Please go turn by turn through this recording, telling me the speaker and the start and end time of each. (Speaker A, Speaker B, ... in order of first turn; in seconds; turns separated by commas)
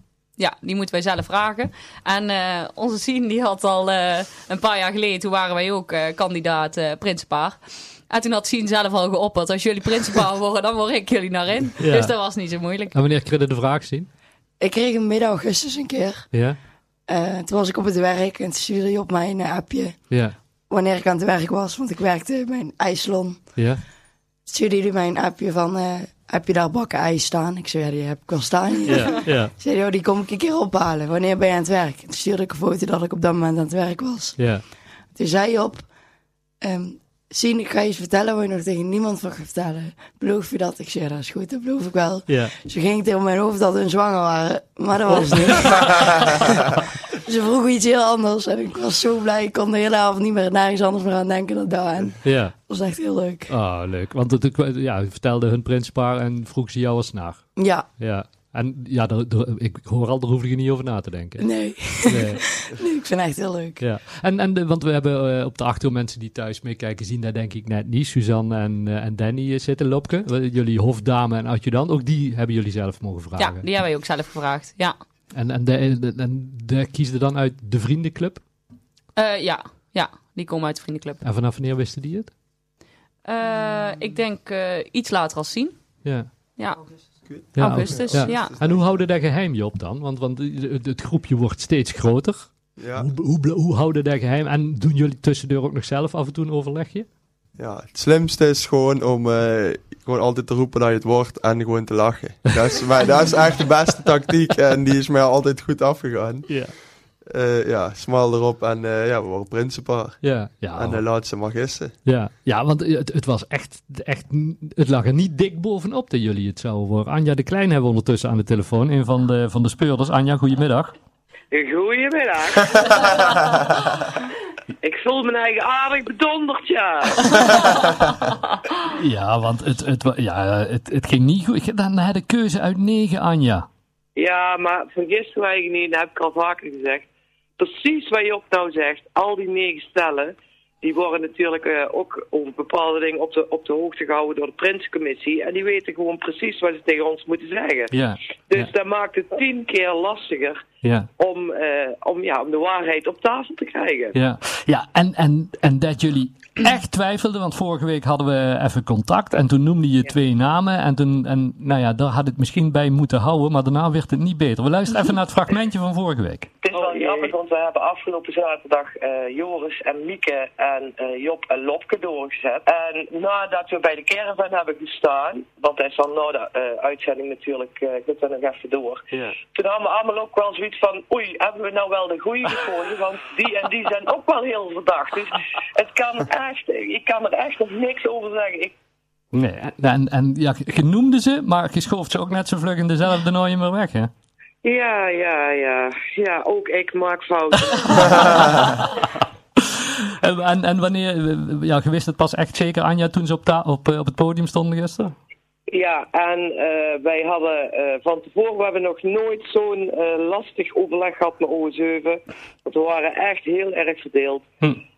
Speaker A: 0.4-12.9, Speaker B: 11.8-12.2, Speaker B: 12.9-14.1, Speaker C: 14.6-16.5, Speaker B: 16.3-16.6, Speaker C: 17.1-23.7, Speaker B: 20.1-20.4, Speaker B: 23.6-23.8, Speaker C: 24.5-34.6, Speaker B: 28.9-29.5, Speaker B: 34.4-34.6, Speaker C: 35.1-35.9, Speaker C: 36.6-46.5, Speaker B: 42.3-42.5, Speaker B: 45.1-46.0, Speaker C: 47.1-53.5, Speaker B: 52.2-52.6, Speaker B: 53.5-62.5, Speaker C: 57.6-57.9, Speaker C: 61.4-63.8, Speaker B: 63.8-73.7, Speaker A: 73.4-75.0, Speaker B: 75.3-78.4, Speaker A: 79.2-81.2, Speaker B: 81.2-82.3, Speaker A: 83.2-85.8, Speaker B: 86.0-86.3, Speaker A: 86.6-88.6, Speaker D: 87.3-89.1, Speaker B: 87.5-97.1, Speaker D: 92.8-93.1, Speaker D: 97.6-112.0, Speaker B: 106.5-106.8, Speaker B: 110.2-111.1, Speaker B: 112.0-120.9, Speaker E: 121.5-123.8, Speaker E: 124.8-127.8, Speaker B: 128.9-133.7, Speaker E: 134.2-147.9, Speaker B: 147.9-148.7, Speaker E: 148.5-150.6, Speaker B: 150.8-151.1, Speaker E: 151.2-154.2, Speaker B: 154.1-166.5, Speaker E: 166.6-188.7, Speaker B: 189.3-194.1, Speaker E: 194.6-198.7, Speaker B: 198.0-198.9, Speaker B: 200.2-205.2, Speaker E: 205.7-214.5